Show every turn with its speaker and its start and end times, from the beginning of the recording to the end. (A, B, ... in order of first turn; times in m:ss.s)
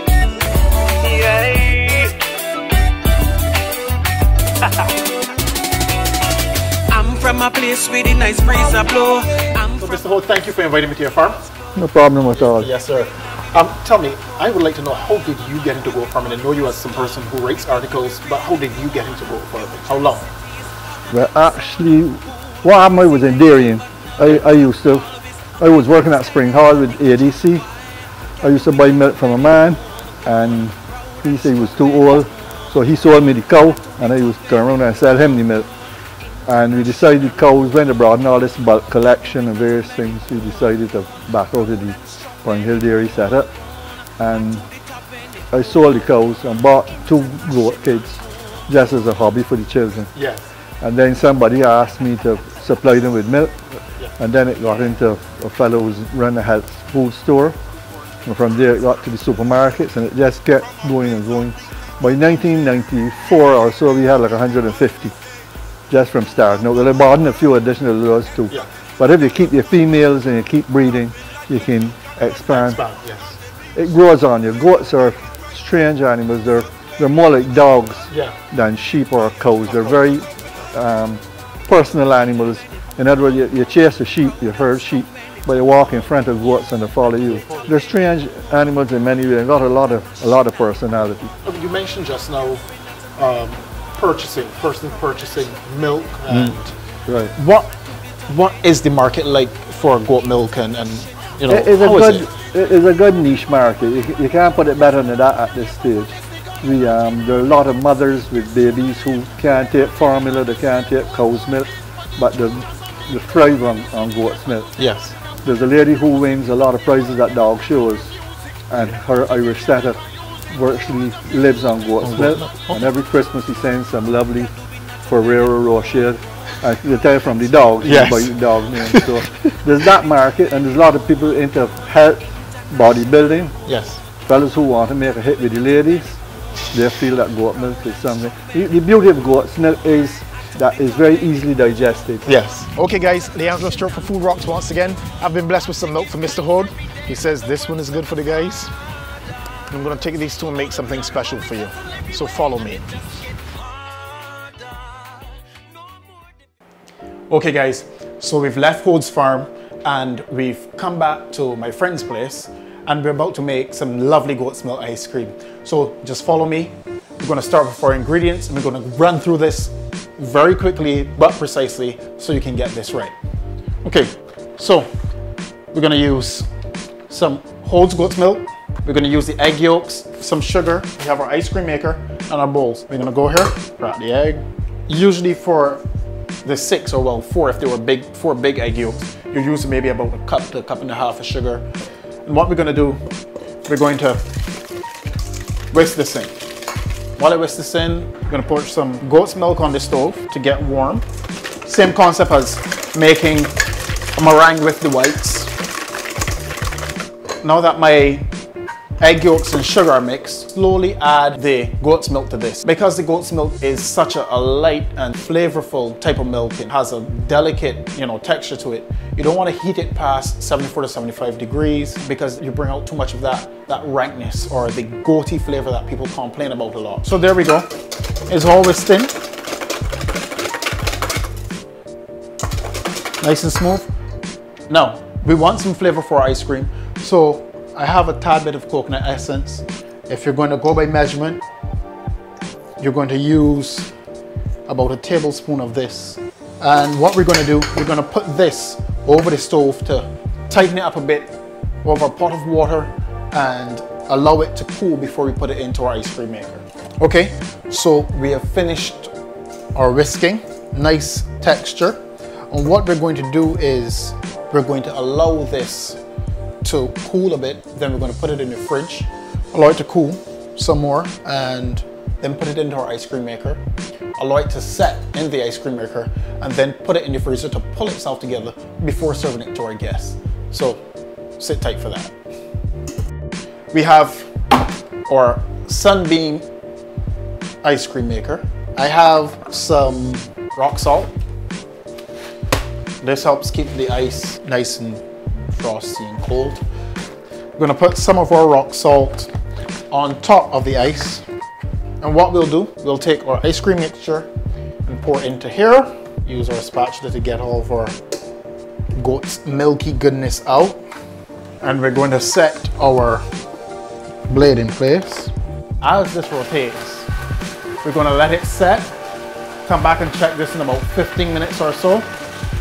0:01.0-0:02.2 A
0:06.9-0:09.8 A
0:09.8-0:11.4 B
0:11.7-0:12.7 C
0:12.3-0:20.3 B
0:21.1-0:27.6 C
0:28.4-0:35.7 C
0:36.4-0:43.5 C
0:44.2-0:44.7 C
0:45.5-0:50.1 C
0:50.1-0:50.4 B
0:50.8-0:57.6 C
0:58.2-1:05.1 C
1:05.9-1:12.8 C
1:12.5-1:13.4 B
1:13.7-1:31.3 C
1:18.1-1:18.4 B
1:19.7-1:20.0 B
1:27.3-1:27.8 B
1:31.4-1:32.6 B
1:33.2-1:36.7 B
1:37.0-1:37.3 C
1:37.3-1:37.7 B
1:38.3-1:42.3 B
1:41.5-1:54.7 C
1:54.8-1:55.2 B
1:55.4-1:58.2 C
1:58.7-2:04.5 C
2:02.0-2:02.8 B
2:05.0-2:13.6 C
2:07.8-2:09.2 B
2:13.6-2:14.0 B
2:14.2-2:16.2 C
2:16.7-2:22.2 C
2:22.2-2:28.7 B
2:29.7-2:32.8 B
2:37.3-2:53.1 B
2:53.8-2:54.9 B
2:55.7-2:56.5 B
2:57.1-3:05.8 B
3:06.4-3:11.7 B
3:12.2-3:13.0 B
3:13.6-3:14.3 B
3:15.7-3:16.3 B
3:17.2-3:21.0 B
3:21.6-3:23.5 B
3:24.1-3:25.5 B
3:27.4-3:28.3 B
3:29.0-3:47.7 B
3:48.3-3:49.2 B
3:53.2-3:53.9 B
3:54.7-4:01.4 B
4:02.8-4:03.9 B
4:04.6-4:19.1 B
4:19.7-4:26.0 B
4:26.6-4:33.6 B
4:34.2-4:40.8 B
4:41.4-4:42.1 B
4:43.7-4:44.3 B
4:45.0-4:46.5 B
4:47.6-4:51.1 B
4:53.0-4:56.6 B
4:57.6-4:59.3 B
4:59.9-5:01.2 B
5:02.0-5:04.3 B
5:04.8-5:08.0 B
5:08.9-5:10.8 B
5:11.6-5:13.2 B
5:14.3-5:17.1 B
5:17.8-5:18.9 B
5:19.6-5:22.1 B